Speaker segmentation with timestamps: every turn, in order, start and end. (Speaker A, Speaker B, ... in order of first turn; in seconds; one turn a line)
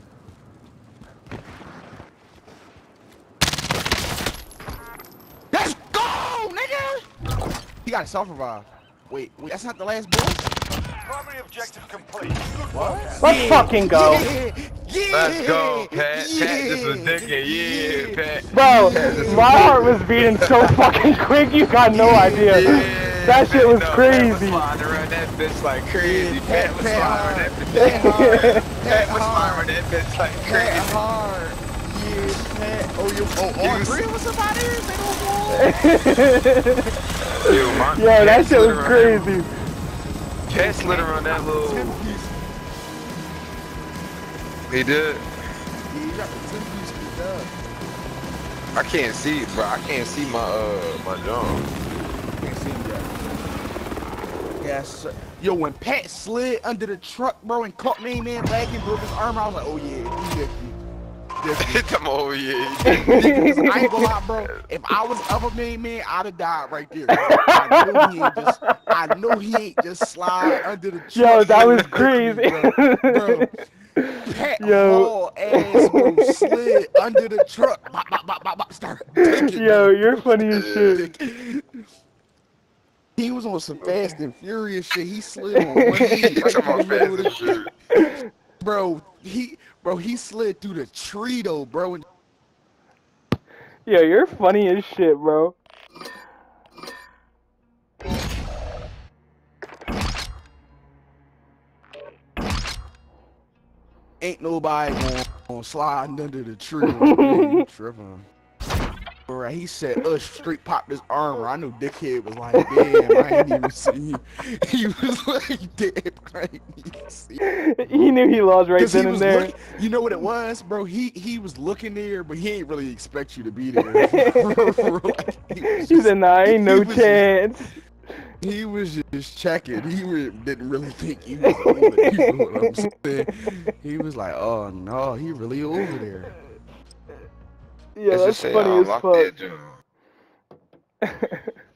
Speaker A: 5.5-7.0
Speaker A: 7.8-10.4
Speaker B: 11.0-13.3
Speaker A: 12.7-19.9
Speaker C: 13.2-14.3
Speaker D: 15.1-21.2
Speaker C: 18.5-24.7
Speaker D: 21.9-31.0
Speaker A: 21.9-23.2
Speaker A: 26.0-29.7
Speaker C: 27.7-28.6
Speaker A: 30.4-35.9
Speaker D: 33.6-34.1
Speaker C: 35.5-36.9
Speaker D: 37.3-39.3
Speaker C: 37.5-39.5
Speaker D: 40.5-42.0
Speaker A: 40.5-42.4
Speaker D: 44.7-45.2
Speaker A: 45.9-47.6
Speaker D: 48.8-51.7
Speaker A: 52.4-53.2
Speaker A: 54.6-60.8
Speaker A: 61.4-61.9
Speaker D: 61.6-64.6
Speaker C: 62.8-64.0
Speaker A: 62.9-73.6
Speaker C: 67.1-68.5
Speaker C: 70.4-73.5
Speaker C: 74.0-76.6
Speaker A: 74.2-80.3
Speaker C: 79.2-81.1
Speaker D: 80.4-80.9
Speaker A: 80.8-81.7
Speaker A: 83.2-87.7
Speaker C: 85.5-87.0
Speaker D: 86.3-87.7
Speaker C: 87.9-88.2
Speaker A: 88.6-92.0
Speaker C: 93.9-95.5
Speaker A: 104.2-108.2
Speaker C: 107.0-107.6
Speaker A: 109.3-117.4
Speaker C: 112.6-113.4
Speaker C: 117.4-119.7
Speaker A: 118.8-127.3
Speaker C: 123.8-124.9
Speaker C: 125.6-127.8
Speaker A: 128.4-136.3
Speaker C: 131.4-133.3
Speaker C: 138.0-139.3
Speaker D: 138.1-139.8
Speaker C: 141.0-141.5